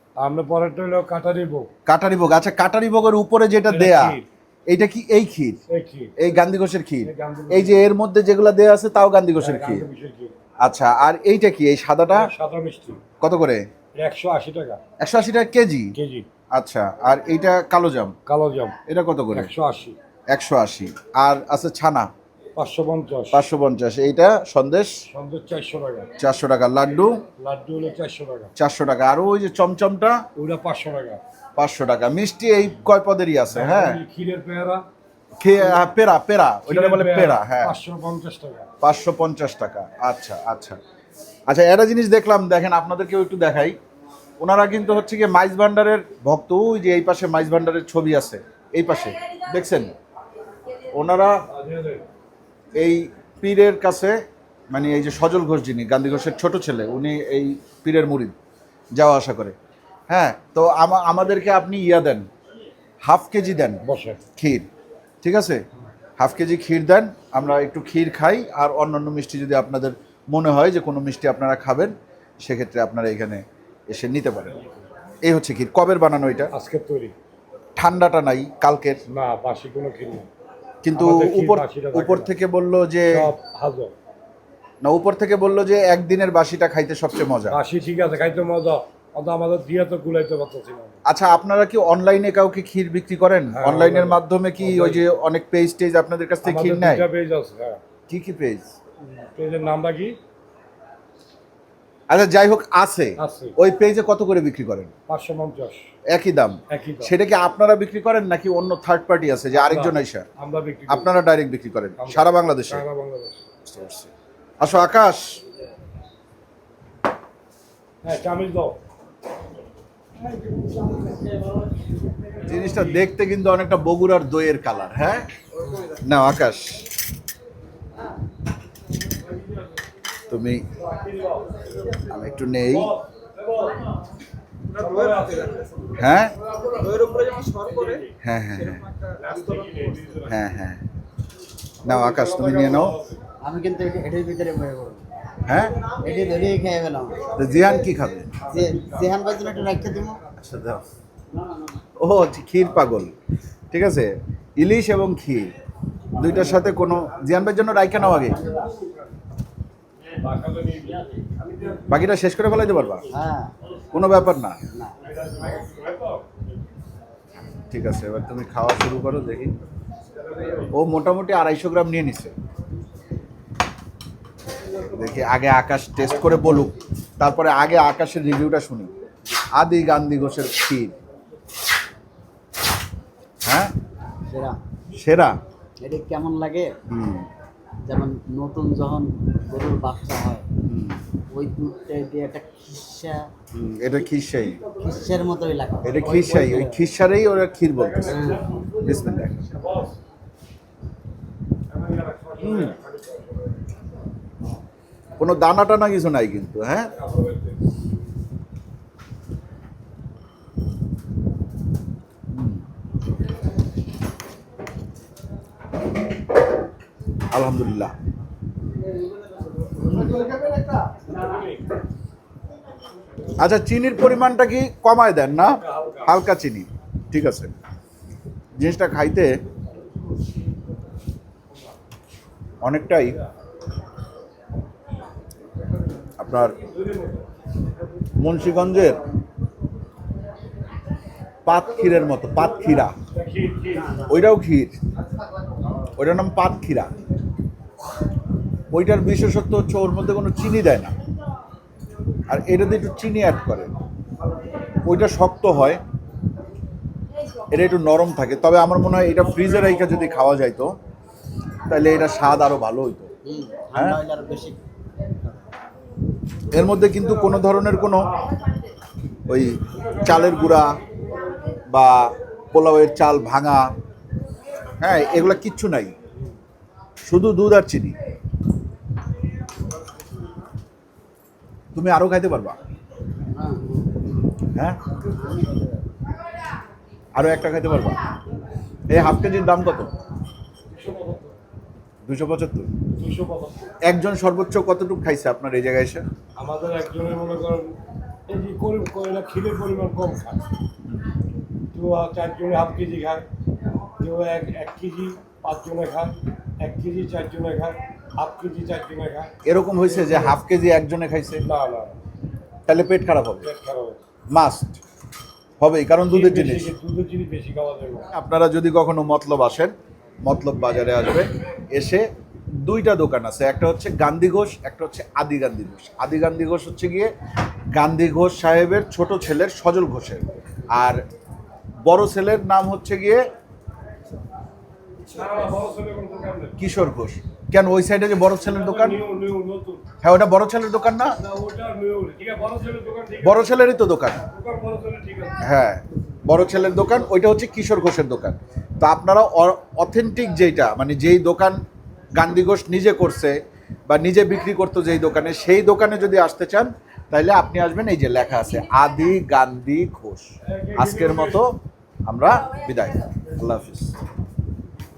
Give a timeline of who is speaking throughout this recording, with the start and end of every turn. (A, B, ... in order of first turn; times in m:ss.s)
0:00.2-0:01.7 A
0:01.9-0:05.6 B
0:03.7-0:04.2 A
0:05.7-0:06.1 A
0:06.2-0:09.9 B
0:07.0-0:07.9 A
0:09.4-0:10.3 A
0:10.6-0:12.3 B
0:12.1-0:13.0 A
0:13.2-0:13.6 B
0:14.0-0:14.8 A
0:15.0-0:15.9 B
0:15.9-0:16.3 A
0:16.5-0:18.1 B
0:18.3-0:18.8 A
0:18.9-0:19.5 B
0:19.3-0:20.0 A
0:20.3-0:22.1 B
0:22.6-0:23.4 A
0:23.3-0:24.9 B
0:25.1-0:26.1 A
0:26.2-0:27.2 B
0:27.4-0:28.5 A
0:28.6-0:30.2 B
0:30.4-0:31.2 A
0:31.6-0:34.0 B
0:33.5-0:34.8 A
0:35.4-0:37.8 B
0:36.7-0:38.7 A
0:38.8-0:40.8 B
0:41.5-0:43.8 B
0:44.4-0:49.9 B
0:50.9-0:51.4 B
0:51.5-0:52.0 A
0:52.8-0:54.2 B
0:54.7-0:58.3 B
0:59.0-0:59.6 B
1:00.1-1:02.3 B
1:03.0-1:03.8 B
1:03.9-1:04.2 A
1:04.4-1:04.6 B
1:05.2-1:05.6 B
1:06.2-1:14.5 B
1:15.2-1:16.5 B
1:16.5-1:17.1 A
1:17.8-1:19.0 B
1:19.1-1:20.3 A
1:20.8-1:23.3 B
1:20.9-1:22.3 A
1:23.1-1:23.9 A
1:24.8-1:27.6 B
1:27.5-1:31.0 A
1:31.0-1:37.0 B
1:33.5-1:35.0 A
1:36.4-1:37.8 A
1:38.1-1:38.7 B
1:39.1-1:40.2 A
1:42.1-1:44.9 B
1:43.2-1:43.6 A
1:45.1-1:45.9 A
1:46.1-1:50.2 B
1:46.7-1:47.1 A
1:49.5-1:51.1 A
1:50.9-1:52.8 B
1:52.0-1:53.4 A
1:53.6-1:54.1 B
1:54.6-1:55.4 B
1:58.0-1:58.8 A
2:02.4-2:05.3 B
2:02.5-2:03.0 A
2:05.8-2:06.9 B
2:10.3-2:10.6 B
2:10.8-2:11.6 A
2:12.0-2:12.9 B
2:12.7-2:13.8 A
2:14.7-2:15.9 A
2:16.0-2:16.4 B
2:17.5-2:18.1 A
2:18.2-2:18.9 B
2:19.0-2:20.4 A
2:20.3-2:20.8 B
2:21.8-2:23.0 B
2:21.8-2:23.2 A
2:23.4-2:25.0 C
2:25.4-2:25.8 B
2:25.8-2:27.4 C
2:27.4-2:28.4 B
2:28.4-2:30.2 C
2:30.4-2:30.8 B
2:32.0-2:33.1 B
2:33.7-2:35.5 B
2:36.2-2:38.4 B
2:40.1-2:41.9 A
2:41.9-2:43.1 B
2:43.1-2:43.5 C
2:43.9-2:44.6 B
2:44.7-2:45.0 C
2:45.0-2:46.2 A
2:47.7-2:49.6 B
2:50.4-2:50.6 A
2:50.7-2:52.3 B
2:54.8-2:58.9 B
2:59.6-3:00.9 B
3:03.4-3:03.7 B
3:04.3-3:04.6 C
3:04.9-3:05.4 B
3:05.8-3:06.7 C
3:06.9-3:07.3 B
3:07.9-3:10.4 C
3:10.6-3:11.0 B
3:11.3-3:13.5 C
3:13.6-3:14.6 B
3:14.7-3:16.9 C
3:15.8-3:18.2 B
3:15.9-3:16.7 A
3:17.8-3:20.0 A
3:18.0-3:18.4 C
3:18.8-3:19.4 B
3:21.7-3:23.6 A
3:22.4-3:22.8 B
3:25.2-3:26.9 B
3:27.0-3:27.6 A
3:32.3-3:32.6 B
3:37.3-3:37.9 B
3:39.8-3:40.4 B
3:41.1-3:41.6 A
3:43.4-3:47.5 B
3:45.4-3:46.2 A
3:48.6-3:49.4 B
3:52.6-3:53.2 B
3:56.2-3:56.6 B
3:56.6-3:57.2 A
3:58.2-3:59.0 B
4:01.4-4:02.9 B
4:03.0-4:04.0 A
4:04.0-4:04.7 B
4:06.0-4:06.9 B
4:08.7-4:10.9 B
4:12.3-4:13.7 B
4:14.8-4:15.8 B
4:17.5-4:20.7 B
4:19.3-4:20.4 A
4:21.7-4:23.1 B
4:23.2-4:24.6 C
4:23.7-4:24.0 B
4:26.5-4:28.1 B
4:29.3-4:30.8 B
4:29.7-4:30.7 A
4:31.7-4:33.7 B
4:34.8-4:35.9 B
4:37.1-4:38.0 B
4:41.8-4:42.6 B
4:43.3-4:44.2 C
4:44.9-4:45.9 C
4:47.1-4:48.0 B
4:48.9-4:49.9 B
4:50.7-4:51.4 A
4:52.0-4:52.7 B
4:52.9-4:53.7 A
4:53.9-4:56.0 B
4:56.4-4:57.7 A
4:58.3-5:00.4 A
5:01.7-5:03.2 A
5:04.0-5:09.3 A
5:09.4-5:11.4 B
5:09.8-5:10.4 A
5:11.4-5:12.0 A
5:12.7-5:13.5 B
5:13.4-5:14.0 A
5:14.3-5:14.8 B
5:15.6-5:16.7 B
5:16.1-5:18.1 A
5:18.1-5:19.7 B
5:20.2-5:22.0 B
5:22.6-5:27.1 B
5:27.7-5:31.0 B
5:31.9-5:33.2 B
5:35.1-5:36.6 A
5:36.6-5:39.0 B
5:38.4-5:39.8 A
5:40.0-5:41.2 B
5:41.2-5:43.6 A
5:43.2-5:44.2 B
5:44.3-5:45.4 A
5:45.4-5:51.6 B
5:52.2-6:01.5 B
6:00.4-6:01.4 A
6:02.1-6:03.9 B